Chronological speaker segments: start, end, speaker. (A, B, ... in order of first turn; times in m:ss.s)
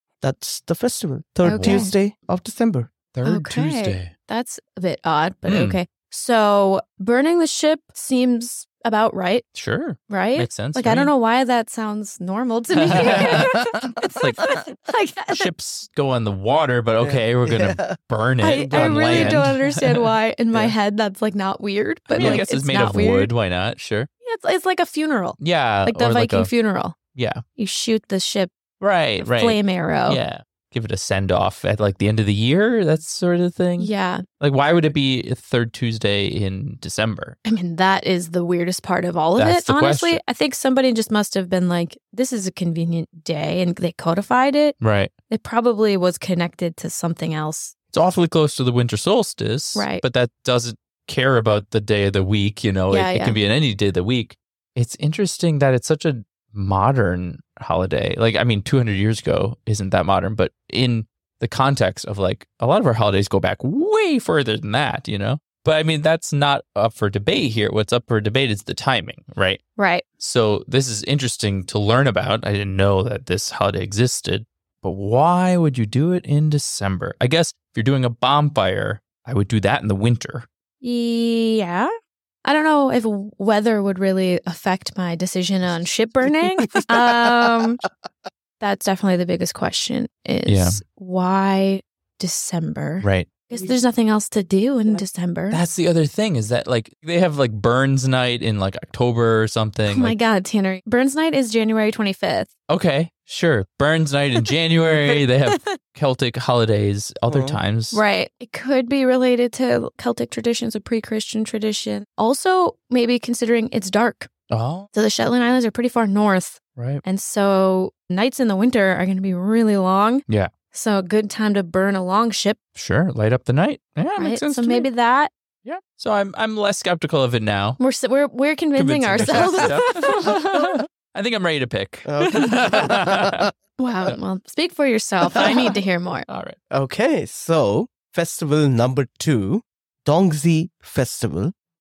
0:00.2-0:02.9 A
0:01.4-0:01.9 B
0:01.6-0:01.9 C
0:03.1-0:04.1 C
0:03.2-0:09.5 B
0:05.5-0:05.8 C
0:09.5-0:11.1 C
0:10.1-0:15.5 B
0:12.8-0:14.5 C
0:13.0-0:13.4 A
0:15.3-0:20.1 C
0:17.0-0:18.0 A
0:18.4-0:23.3 B
0:18.5-0:19.5 A
0:22.1-0:24.1 C
0:22.2-0:22.4 A
0:24.2-0:27.0 B
0:25.4-0:26.5 C
0:27.1-0:27.4 C
0:27.6-0:28.5 B
0:28.8-0:37.4 C
0:29.2-0:30.2 B
0:33.8-0:34.2 B
0:37.4-0:44.8 B
0:39.4-0:40.2 C
0:44.8-0:45.1 C
0:45.3-0:47.7 B
0:47.9-1:09.6 C
0:49.7-0:50.0 B
0:52.9-0:53.4 B
1:09.8-1:10.0 B
1:10.2-1:20.5 C
1:20.8-1:21.9 B
1:22.4-1:27.8 B
1:28.6-1:35.6 B
1:30.4-1:30.8 C
1:33.0-1:33.3 C
1:35.5-1:40.1 C
1:39.9-1:42.5 B
1:42.7-1:48.0 C
1:47.3-1:47.6 A
1:47.9-1:54.3 B
1:54.5-1:54.9 C
1:54.9-2:02.6 B
1:56.8-1:57.0 C
2:02.8-2:04.9 C
2:04.2-2:05.3 B
2:05.6-2:07.8 C
2:07.8-2:10.4 B
2:08.8-2:13.5 C
2:09.4-2:09.7 A
2:12.0-2:13.4 A
2:13.8-2:16.3 B
2:15.3-2:15.7 C
2:16.3-2:16.6 C
2:16.7-2:21.5 A